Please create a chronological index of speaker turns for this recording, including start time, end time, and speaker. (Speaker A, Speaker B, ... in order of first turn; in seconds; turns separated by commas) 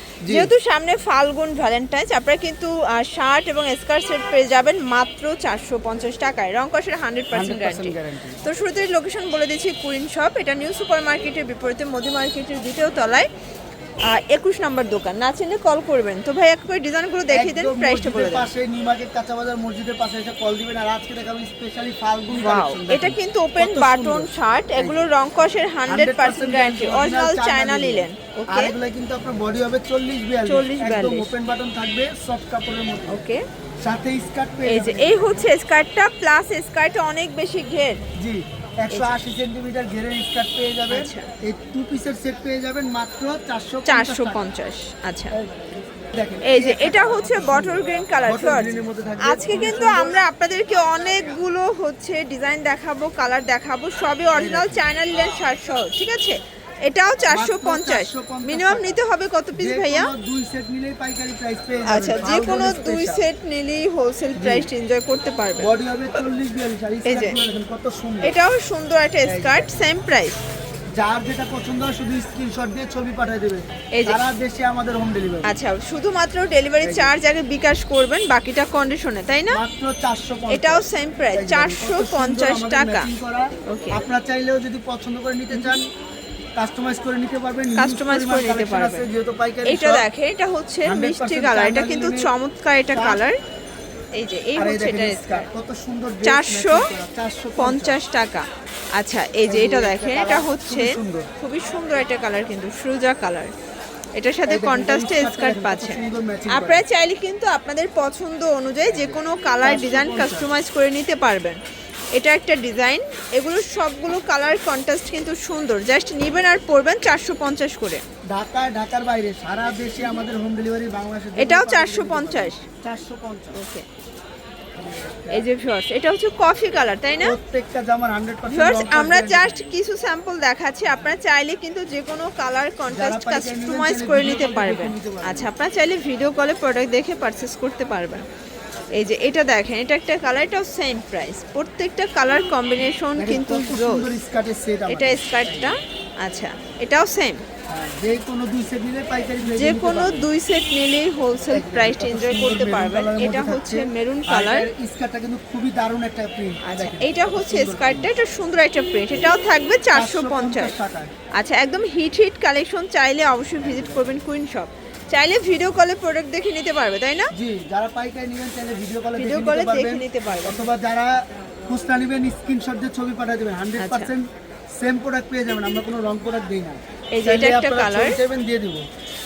Speaker A: 0.2-0.5, Speaker B: 0.3-13.3, Speaker A: 7.3-8.4, Speaker B: 14.1-18.5, Speaker A: 17.3-25.1, Speaker B: 22.4-28.7, Speaker A: 25.9-33.3, Speaker B: 30.5-31.3, Speaker B: 33.1-33.4, Speaker A: 33.8-35.5, Speaker B: 34.7-38.0, Speaker A: 38.2-44.5, Speaker B: 40.9-41.3, Speaker B: 43.9-45.4, Speaker A: 45.3-50.2, Speaker B: 46.4-60.1, Speaker A: 54.3-54.8, Speaker A: 57.3-59.0, Speaker A: 59.6-63.3, Speaker B: 61.9-65.7, Speaker A: 64.4-64.7, Speaker A: 65.6-68.4, Speaker B: 67.0-67.4, Speaker B: 68.2-70.4, Speaker A: 69.2-69.8, Speaker A: 71.0-75.5, Speaker B: 73.9-74.2, Speaker B: 75.4-79.6, Speaker A: 76.8-77.1, Speaker A: 79.5-85.8, Speaker B: 80.5-83.1, Speaker B: 83.7-84.0, Speaker A: 86.6-90.0, Speaker B: 87.8-89.0, Speaker B: 89.7-93.4, Speaker A: 90.8-92.3, Speaker A: 92.9-93.2, Speaker B: 94.2-95.5, Speaker A: 94.6-98.0, Speaker B: 96.2-96.9, Speaker B: 97.6-103.5, Speaker A: 99.5-101.3, Speaker B: 104.2-111.6, Speaker A: 104.5-106.8, Speaker A: 108.9-110.5, Speaker B: 112.2-118.0, Speaker A: 118.3-123.6, Speaker B: 121.4-122.6, Speaker B: 123.5-123.8, Speaker A: 124.8-125.5, Speaker B: 125.3-127.4, Speaker A: 127.2-129.8, Speaker B: 128.5-138.2, Speaker A: 132.9-135.5, Speaker B: 138.9-144.2, Speaker A: 143.2-145.8, Speaker B: 144.9-147.4, Speaker A: 147.7-150.3, Speaker B: 149.5-154.7, Speaker A: 151.4-158.1, Speaker B: 156.6-160.8, Speaker A: 159.9-161.1, Speaker B: 161.4-167.3, Speaker A: 163.6-164.1, Speaker A: 167.3-174.3, Speaker B: 169.2-170.6, Speaker B: 173.8-174.1, Speaker A: 174.8-178.9, Speaker B: 177.1-178.2